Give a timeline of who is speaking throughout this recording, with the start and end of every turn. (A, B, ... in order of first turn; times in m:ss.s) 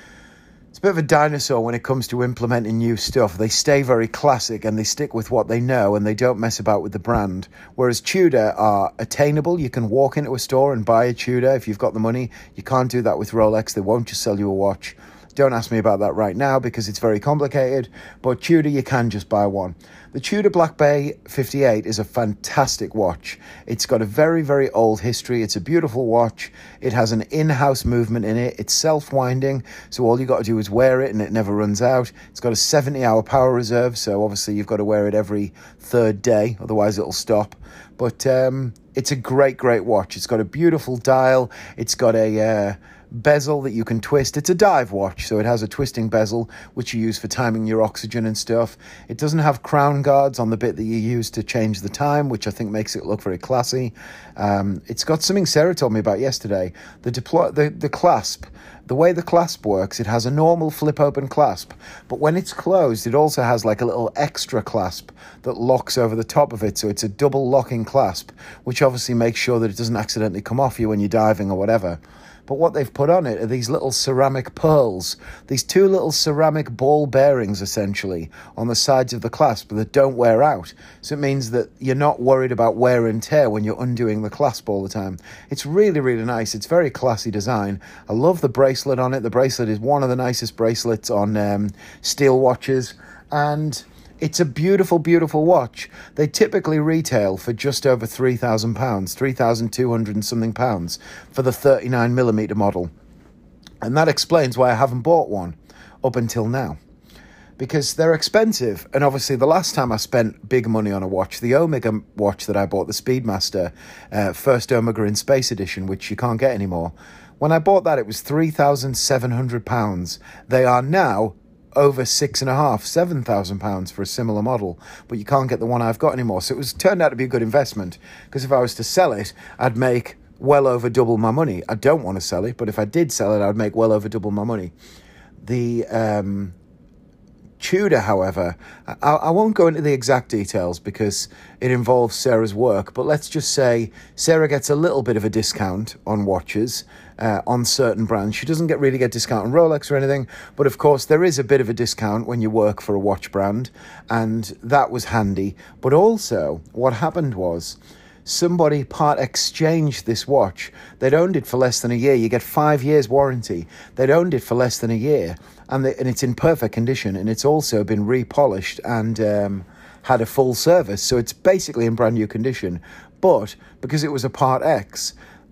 0:00.7-1:42.9 A
1:43.8-1:46.8 A
1:47.6-2:14.7 A
2:15.4-2:16.6 A
2:17.6-2:55.2 A